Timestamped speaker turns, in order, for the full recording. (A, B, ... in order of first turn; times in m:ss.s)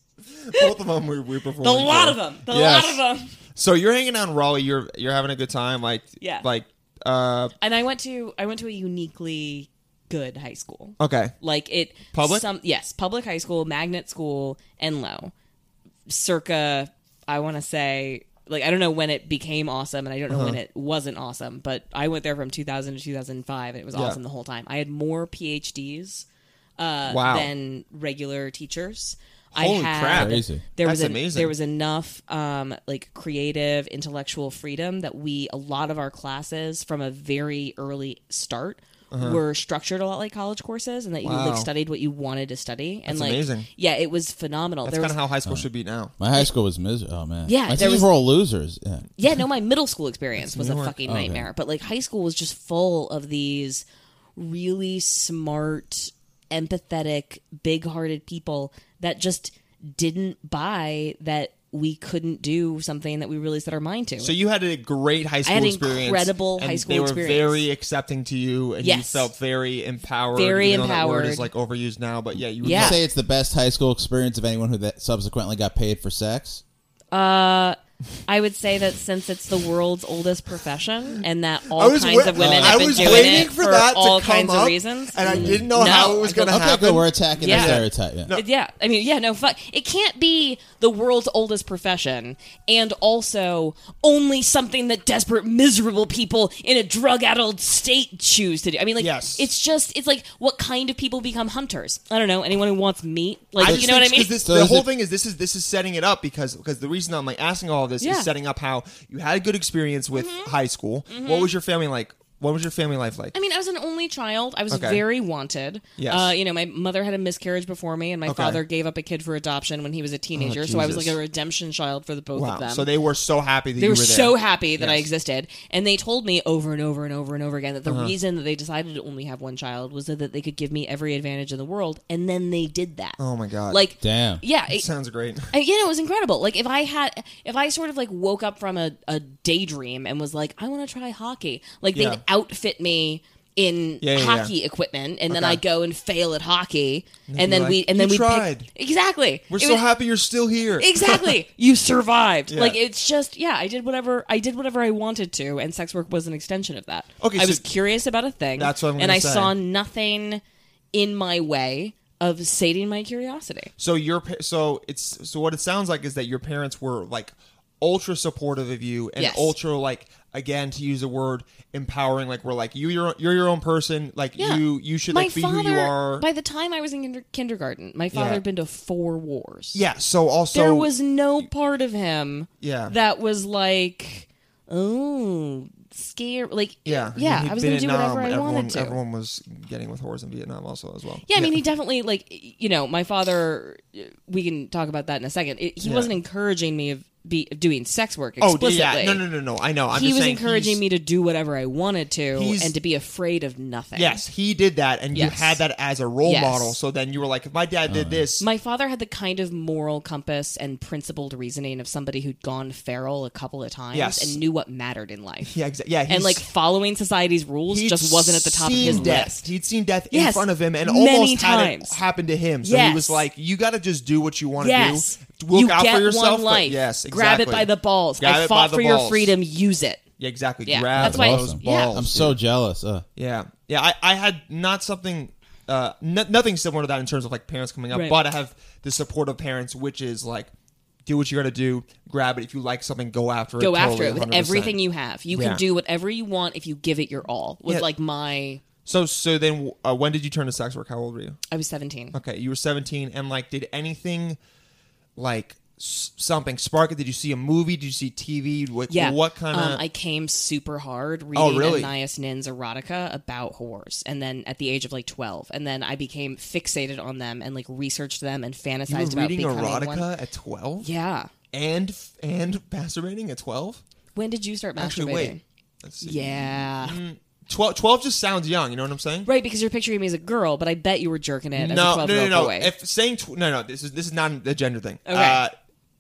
0:00.4-0:03.0 A
0:01.6-0:03.3 B
0:03.6-0:07.5 A
0:06.2-0:06.5 B
0:07.6-0:15.3 B
0:11.0-0:11.4 A
0:12.1-0:12.4 A
0:16.1-0:26.3 B
0:20.3-0:20.6 A
0:23.9-0:24.2 A
0:26.8-0:45.2 B
0:27.1-0:27.5 A
0:29.6-0:31.5 A
0:30.2-0:30.6 C
0:39.1-0:39.4 A
0:41.2-0:41.7 A
0:43.1-0:43.7 A
0:44.8-0:46.2 A
0:46.2-0:49.0 C
0:47.5-0:48.1 B
0:49.2-0:53.8 B
0:50.4-0:51.0 A
0:51.1-0:51.5 C
0:54.4-1:04.3 B
1:04.2-1:13.0 A
1:05.4-1:07.6 B
1:08.8-1:09.3 B
1:10.3-1:11.5 B
1:12.6-1:13.0 B
1:12.6-1:16.6 C
1:17.1-1:26.6 B
1:21.7-1:28.4 A
1:22.4-1:23.5 C
1:25.3-1:25.7 C
1:26.5-1:28.3 C
1:27.4-1:44.4 B
1:39.0-1:39.5 A
1:43.6-1:53.4 A
1:43.6-1:43.9 C
1:44.4-1:44.9 C
1:48.0-1:48.3 B
1:50.1-1:50.6 B
1:51.1-1:51.5 B
1:53.3-2:02.9 B
1:54.7-1:55.0 A
1:56.0-1:56.3 A
1:58.3-1:58.6 A
2:00.4-2:01.2 A
2:02.4-2:05.1 A
2:03.8-2:13.2 B
2:07.9-2:08.2 A
2:13.2-2:13.8 A
2:13.7-2:14.9 B
2:14.0-2:14.4 C
2:14.7-2:15.5 A
2:15.5-2:29.8 B
2:22.0-2:22.2 A
2:24.0-2:24.5 A
2:25.3-2:25.6 A
2:27.3-2:28.7 A
2:29.5-2:31.4 A
2:30.8-2:40.4 B
2:32.5-2:32.8 A
2:37.2-2:37.6 A
2:38.6-2:39.5 A
2:40.9-2:43.7 B
2:43.8-2:56.2 A
2:49.2-2:49.6 B
2:54.4-2:59.8 B
2:58.1-2:58.4 A
2:59.7-3:00.9 A
3:00.5-3:09.0 B
3:02.6-3:02.9 A
3:06.9-3:11.6 A
3:11.3-3:19.2 B
3:15.8-3:16.1 A
3:18.4-3:20.8 A
3:19.9-3:24.2 B
3:22.3-3:22.7 A
3:24.0-3:28.5 A
3:25.1-3:25.6 B
3:26.2-3:26.8 B
3:27.9-3:28.3 C
3:28.4-3:35.6 B
3:33.9-3:34.4 A
3:35.5-3:36.4 A
3:36.1-3:39.5 B
3:37.7-3:49.3 A
3:38.8-3:39.2 C
3:40.1-3:42.0 B
3:42.6-3:43.2 B
3:44.6-3:50.0 B
3:50.2-3:52.4 A
3:50.7-3:52.0 B
3:51.0-3:53.0 C
3:53.2-4:00.5 A
3:57.9-3:58.2 B
4:01.1-4:04.8 A
4:03.6-4:08.6 B
4:05.3-4:05.6 A
4:08.8-4:11.4 A
4:11.5-4:12.2 B
4:12.1-4:14.4 A
4:15.2-4:19.8 A
4:18.9-4:30.1 B
4:21.4-4:21.9 A
4:28.9-4:30.9 A
4:30.8-4:31.3 B
4:31.5-4:33.8 A
4:34.2-4:35.4 B
4:34.8-4:39.3 A
4:36.0-4:37.0 B
4:39.3-4:42.7 B
4:41.6-4:45.5 A
4:45.1-4:45.4 B